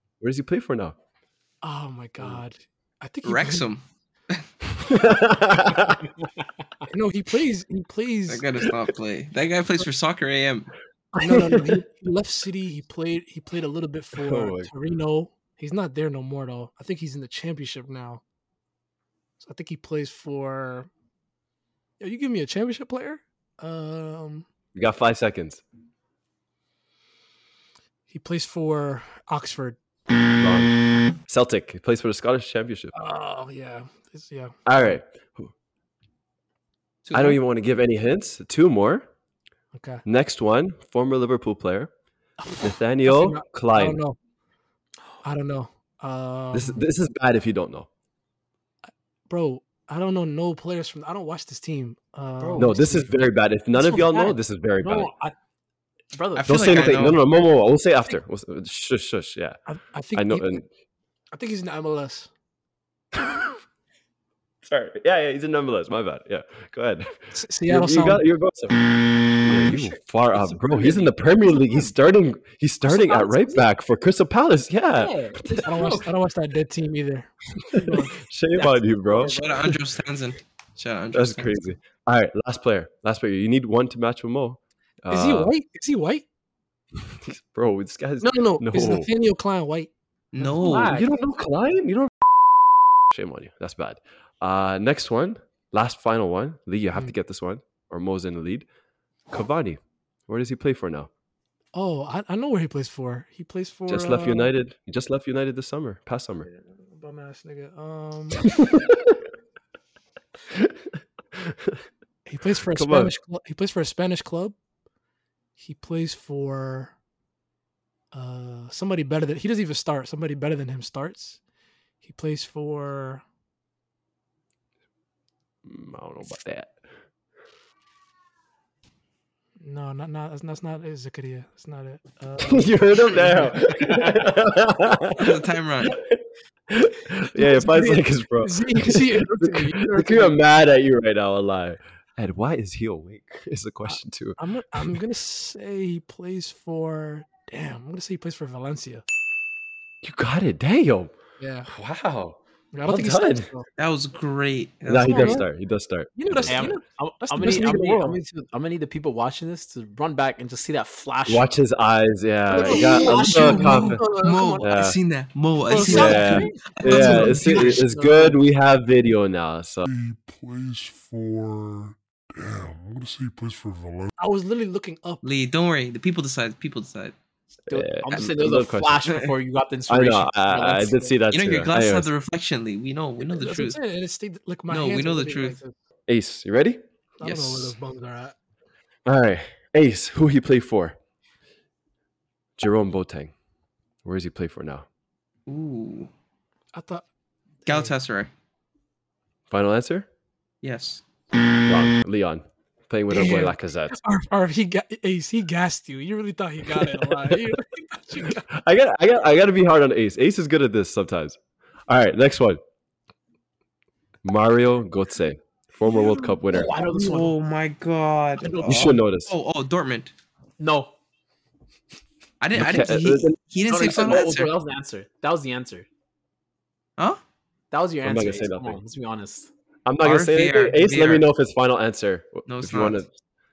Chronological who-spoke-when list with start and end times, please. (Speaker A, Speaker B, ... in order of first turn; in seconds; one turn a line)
Speaker A: 0.2-1.0
Speaker B: 1.6-3.7
Speaker C: 3.2-4.4
Speaker A: 4.8-6.0
Speaker B: 6.9-8.5
Speaker C: 8.3-10.7
Speaker B: 11.2-18.2
Speaker A: 11.2-11.8
Speaker A: 14.2-14.7
Speaker B: 19.4-20.9
Speaker B: 22.0-24.5
Speaker A: 24.8-25.6
Speaker B: 28.1-29.8
Speaker A: 30.4-30.7
Speaker A: 31.2-32.9
Speaker B: 32.9-34.5
Speaker A: 34.7-35.5
Speaker C: 37.1-37.4
Speaker A: 37.1-39.0
Speaker B: 39.7-40.0
Speaker A: 40.0-41.9
Speaker B: 42.4-44.2
Speaker A: 42.6-44.0
Speaker B: 45.2-46.8
Speaker A: 46.5-47.9
Speaker B: 49.3-52.9
Speaker D: 52.4-53.1
Speaker A: 52.6-55.1
Speaker D: 53.7-55.3
Speaker D: 56.1-57.1
Speaker C: 56.4-57.3
Speaker A: 56.5-59.6
Speaker B: 59.7-60.6
Speaker A: 60.1-60.6
Speaker B: 61.3-62.3
Speaker A: 64.6-67.1
Speaker B: 67.3-68.2
Speaker A: 67.7-68.8
Speaker A: 69.3-75.7
Speaker D: 69.5-71.9
Speaker D: 72.8-73.7
Speaker D: 74.9-76.1
Speaker B: 75.6-78.2
Speaker A: 77.9-79.7
Speaker D: 78.6-79.6
Speaker C: 79.1-81.6
Speaker A: 81.1-85.5
Speaker B: 85.1-86.2
Speaker A: 87.1-89.1
Speaker B: 88.2-90.9
Speaker C: 90.3-91.0
Speaker D: 90.6-91.0
Speaker A: 90.8-98.7
Speaker A: 99.3-101.1
Speaker B: 101.7-104.5
Speaker A: 103.9-106.5
Speaker B: 106.4-108.5
Speaker A: 111.5-111.7
Speaker B: 112.3-114.6
Speaker A: 112.7-113.1
Speaker B: 115.6-117.0
Speaker B: 118.1-121.4
Speaker B: 122.0-123.2
Speaker A: 125.7-126.7
Speaker B: 129.6-133.6
Speaker A: 132.4-135.2
Speaker D: 133.9-134.2
Speaker C: 135.2-136.0
Speaker A: 136.0-145.0
Speaker B: 137.4-140.4
Speaker B: 143.9-149.1
Speaker A: 150.0-151.1
Speaker B: 151.4-151.7
Speaker A: 151.7-153.5
Speaker B: 152.7-153.7
Speaker C: 153.8-155.4
Speaker A: 154.9-156.7
Speaker B: 155.0-155.5
Speaker B: 156.2-158.2
Speaker D: 156.4-161.5
Speaker A: 161.3-164.1
Speaker D: 162.5-164.8
Speaker B: 162.6-163.0
Speaker C: 162.6-167.9
Speaker A: 164.6-165.0
Speaker D: 165.7-168.4
Speaker B: 165.7-166.4
Speaker A: 165.8-169.9
Speaker B: 166.9-167.7
Speaker E: 169.8-174.1
Speaker B: 174.2-175.2
Speaker C: 175.2-177.2
Speaker A: 177.7-179.0
Speaker D: 177.7-181.2
Speaker C: 179.1-179.3
Speaker A: 179.9-182.1
Speaker C: 181.3-183.8
Speaker B: 183.2-185.7
Speaker C: 184.7-185.6
Speaker A: 186.1-186.8
Speaker B: 187.2-188.3
Speaker C: 187.2-187.8
Speaker A: 189.1-191.0
Speaker A: 192.6-193.3
Speaker A: 194.1-194.9
Speaker C: 195.5-196.1
Speaker B: 196.7-197.1
Speaker B: 197.7-197.9
Speaker C: 197.7-198.3
Speaker A: 199.5-200.1
Speaker C: 200.6-201.0
Speaker A: 201.6-204.0
Speaker B: 203.1-208.4
Speaker A: 206.8-207.5
Speaker A: 208.5-212.6
Speaker A: 214.2-216.8
Speaker C: 215.9-220.1
Speaker D: 216.5-217.4
Speaker D: 218.4-218.8
Speaker A: 218.6-219.3
Speaker D: 220.6-220.9
Speaker C: 222.4-224.5
Speaker A: 222.6-223.4
Speaker D: 223.7-225.9
Speaker D: 227.7-229.5
Speaker A: 228.0-228.8
Speaker A: 229.9-233.1
Speaker C: 230.0-231.3
Speaker C: 232.5-233.1